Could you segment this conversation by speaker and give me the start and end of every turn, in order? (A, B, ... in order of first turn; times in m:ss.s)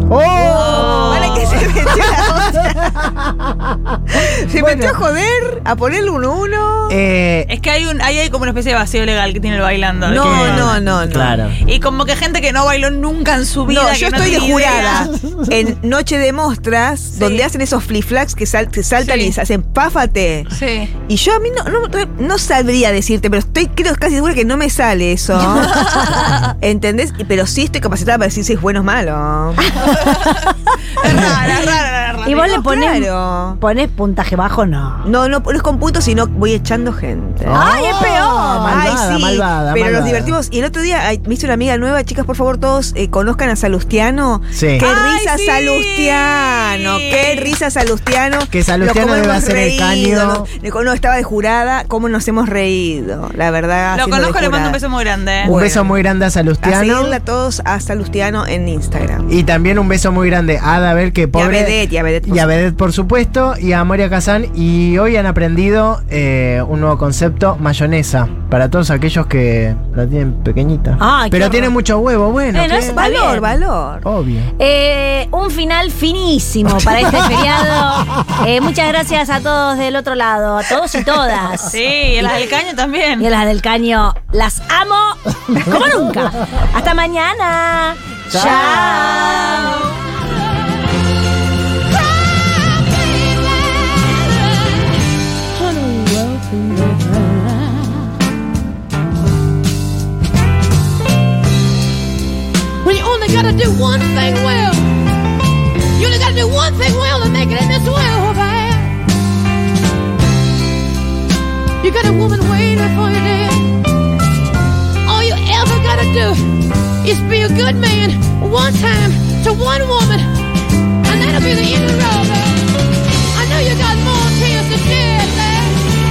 0:00.1-0:03.8 A
0:00.4-0:03.0 B
0:00.5-0:01.6 C
0:04.2-0:07.0 B
0:04.5-0:05.0 A
0:06.9-0:07.5 A
0:07.5-0:10.8 C
0:10.0-0:11.4 B
0:10.2-0:11.6 A
0:11.6-0:15.1 C
0:13.7-0:20.5 B
0:14.9-0:15.4 A
0:17.2-0:17.5 C
0:19.0-0:19.4 C
0:20.5-0:20.9 C
0:21.0-0:29.7 B
0:25.6-0:26.1 C
0:31.0-0:32.6 C
0:32.2-0:35.1 D
0:32.4-0:33.6 B
0:35.0-0:37.7 B
0:37.4-0:40.4 A
0:37.5-0:38.9 D
0:38.6-0:54.8 B
0:44.5-0:44.9 A
0:44.8-0:47.6 C
0:48.5-0:50.5 A
0:53.9-0:55.5 C
0:55.4-0:56.0 B
0:55.4-0:57.2 A
0:56.6-0:59.3 B
0:59.3-1:13.1 A
1:01.3-1:02.6 B
1:11.0-1:11.7 D
1:12.5-1:13.5 D
1:12.9-1:14.0 B
1:14.0-1:14.5 A
1:14.6-1:22.4 D
1:21.7-1:23.3 C
1:23.2-1:29.9 D
1:28.3-1:29.3 A
1:35.6-1:37.4 E
1:42.8-1:44.8 E
1:46.0-1:48.9 E
1:51.8-1:53.6 E
1:55.1-1:56.5 E
1:57.0-2:00.3 E
2:01.1-2:02.6 E
2:03.4-2:05.8 E